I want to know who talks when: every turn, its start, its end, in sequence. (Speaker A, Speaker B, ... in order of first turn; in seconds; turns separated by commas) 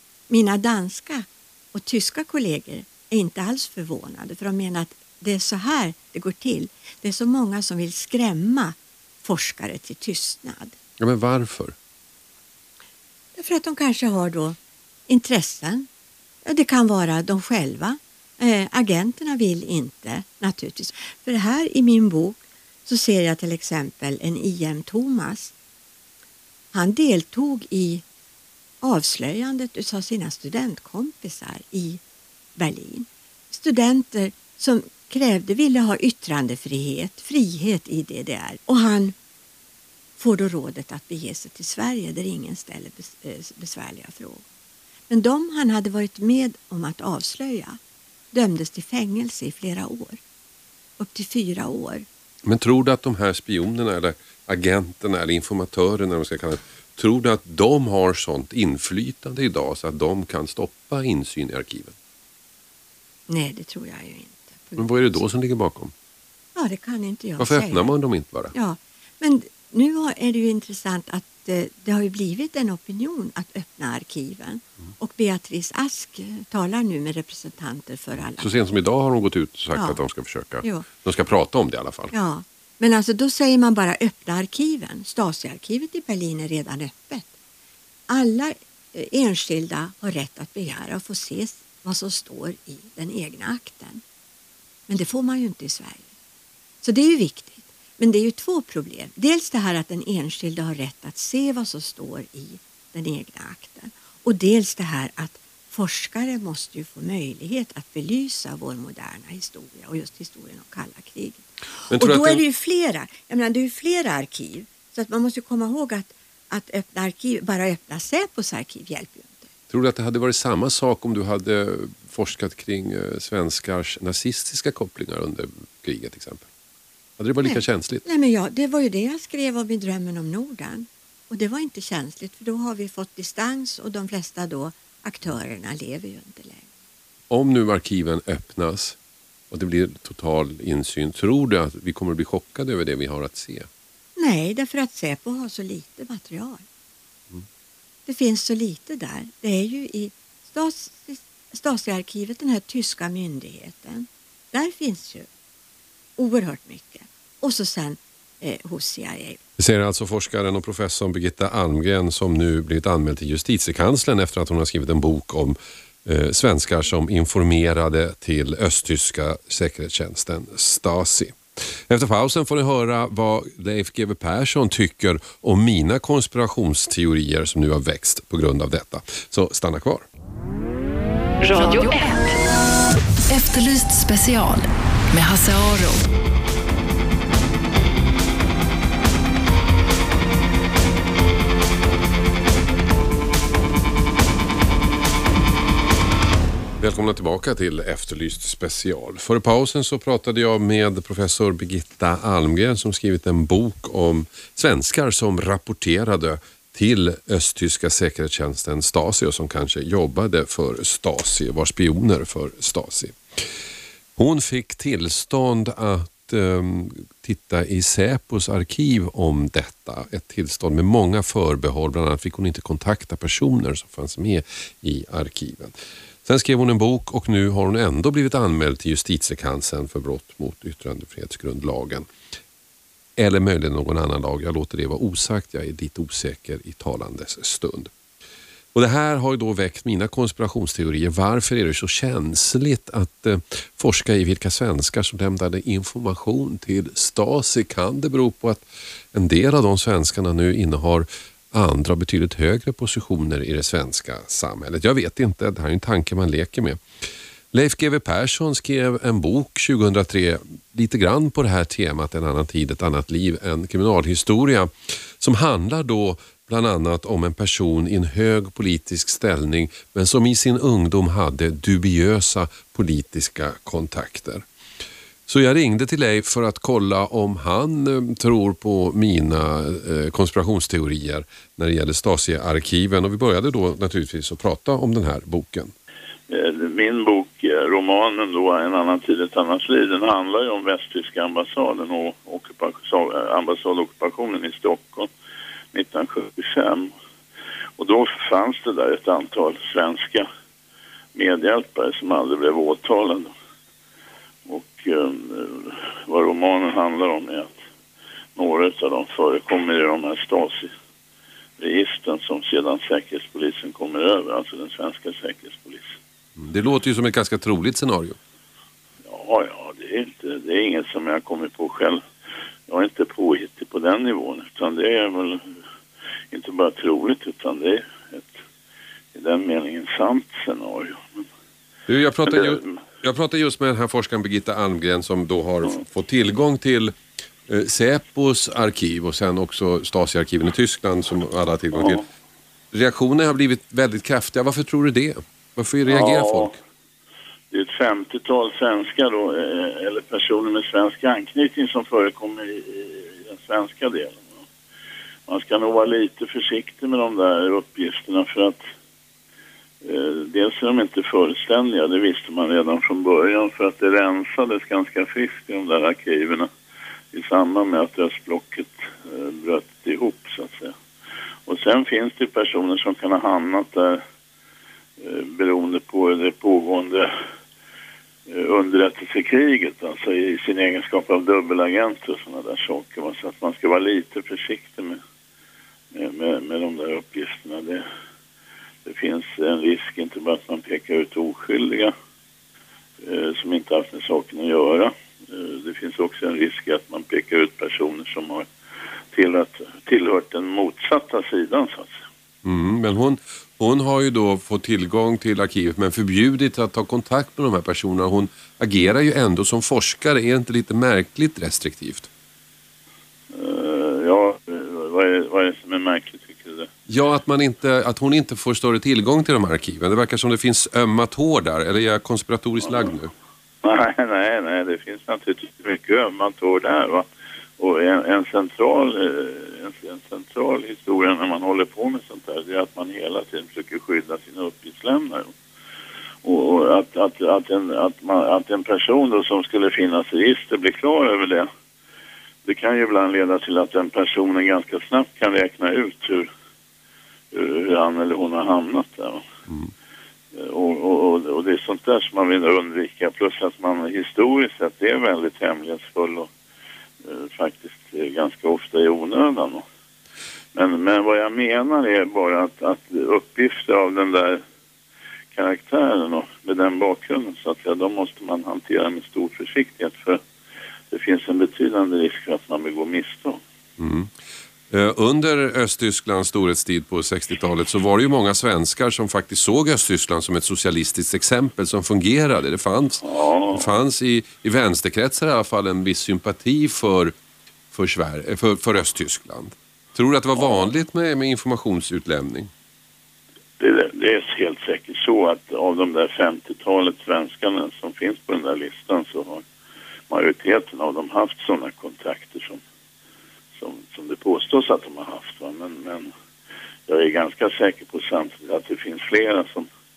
Speaker A: 0.3-10.8, Speaker B: 11.0-11.7, Speaker A: 13.3-14.6, Speaker A: 15.1-15.9, Speaker A: 16.4-25.5, Speaker A: 26.7-28.0, Speaker A: 28.8-32.0, Speaker A: 32.6-39.1, Speaker A: 40.2-44.4, Speaker A: 45.1-47.8, Speaker A: 48.3-50.2, Speaker A: 51.0-52.0, Speaker B: 52.4-61.9, Speaker A: 63.3-65.3, Speaker B: 64.8-65.9, Speaker A: 66.5-67.9, Speaker B: 67.4-68.5, Speaker A: 68.5-78.5, Speaker B: 78.4-82.1, Speaker A: 79.7-80.0, Speaker A: 82.1-87.3, Speaker A: 88.1-94.0, Speaker A: 94.9-96.1, Speaker A: 96.8-119.5, Speaker B: 111.9-112.4, Speaker B: 119.7-126.5, Speaker B: 127.2-128.0, Speaker A: 127.4-136.7, Speaker B: 137.3-139.0, Speaker B: 139.5-143.7, Speaker A: 144.2-146.6, Speaker A: 148.1-155.3, Speaker A: 156.2-159.4, Speaker B: 159.6-180.1, Speaker C: 181.4-182.4, Speaker C: 183.3-186.0, Speaker B: 196.8-213.5, Speaker B: 214.2-225.7, Speaker B: 226.2-232.1, Speaker B: 233.2-237.9, Speaker B: 238.7-256.8, Speaker B: 257.5-274.4, Speaker B: 275.3-285.7, Speaker D: 286.3-295.1, Speaker D: 295.7-296.9, Speaker D: 297.8-300.3, Speaker D: 301.1-303.3, Speaker D: 304.4-307.6, Speaker D: 308.4-310.7, Speaker D: 311.6-315.9, Speaker B: 316.4-318.2, Speaker D: 319.0-322.0, Speaker D: 322.7-325.4, Speaker D: 326.3-328.4, Speaker D: 329.1-331.3, Speaker B: 331.9-336.9, Speaker D: 332.2-332.6, Speaker B: 337.5-342.0, Speaker D: 341.7-342.0, Speaker B: 342.7-346.5, Speaker D: 345.8-346.6, Speaker D: 347.5-354.4, Speaker D: 355.3-358.6, Speaker D: 359.8-366.5, Speaker D: 367.1-370.7, Speaker D: 371.5-374.0, Speaker D: 375.0-377.1, Speaker D: 378.3-385.0, Speaker D: 385.9-387.8, Speaker D: 388.8-391.9, Speaker D: 393.0-398.5, Speaker D: 399.1-402.0, Speaker B: 402.4-412.1, Speaker D: 413.3-416.7, Speaker B: 416.9-423.1, Speaker D: 422.6-422.9, Speaker D: 423.6-427.1, Speaker D: 427.6-435.3, Speaker D: 436.2-441.5, Speaker D: 442.4-446.3, Speaker D: 447.3-449.2, Speaker D: 450.3-456.3, Speaker D: 457.0-459.6, Speaker D: 460.5-464.4, Speaker D: 465.3-470.2, Speaker D: 470.9-473.4, Speaker B: 473.8-474.1, Speaker B: 474.7-487.1, Speaker D: 483.0-483.7, Speaker B: 487.7-492.5, Speaker D: 490.4-490.7, Speaker D: 493.6-499.4, Speaker D: 500.1-502.6, Speaker D: 503.6-506.1, Speaker D: 506.9-509.7